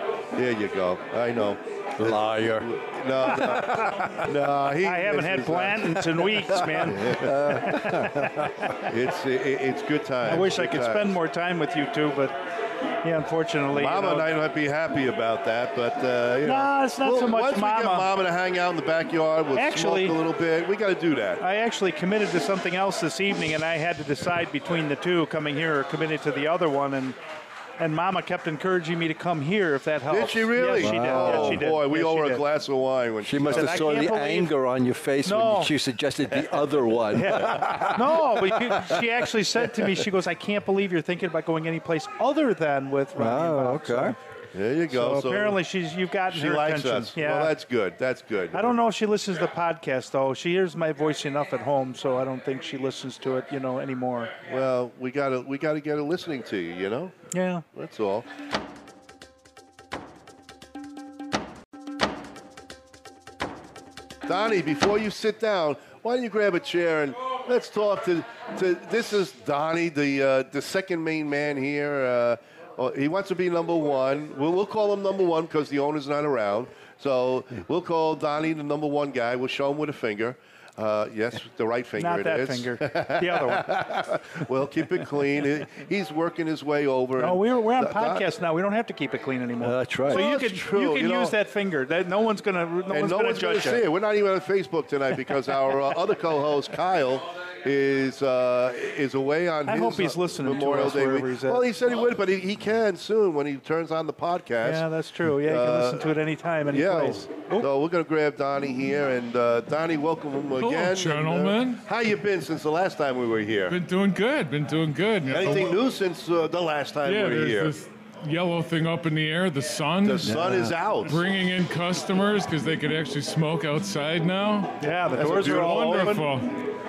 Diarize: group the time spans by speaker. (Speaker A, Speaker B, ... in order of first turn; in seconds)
Speaker A: 0.4-7.3, 8.8-11.2, 13.7-21.4, 30.1-34.0, 44.5-45.6, 46.3-48.8, 54.5-58.3, 64.3-88.2, 90.1-91.3, 92.9-104.9, 105.4-106.1, 106.7-113.8, 115.3-117.7, 120.0-121.2, 125.1-126.3
Speaker B: 2.0-2.7, 7.0-8.5, 30.8-31.6, 33.2-39.1, 43.1-44.2, 89.6-90.3, 120.3-120.7
Speaker C: 4.8-8.9, 10.2-12.4, 13.0-14.3, 16.4-18.1, 19.6-20.2, 21.4-27.2, 27.8-32.5, 33.5-34.5, 35.2-35.7, 37.1-44.2, 44.9-47.6, 48.5-54.3, 57.3-57.6, 82.0-83.7, 87.2-93.8, 99.7-101.6, 104.6-107.7, 124.8-126.3
Speaker D: 110.6-111.8, 113.7-115.8, 117.0-120.5, 121.1-124.7, 125.4-126.5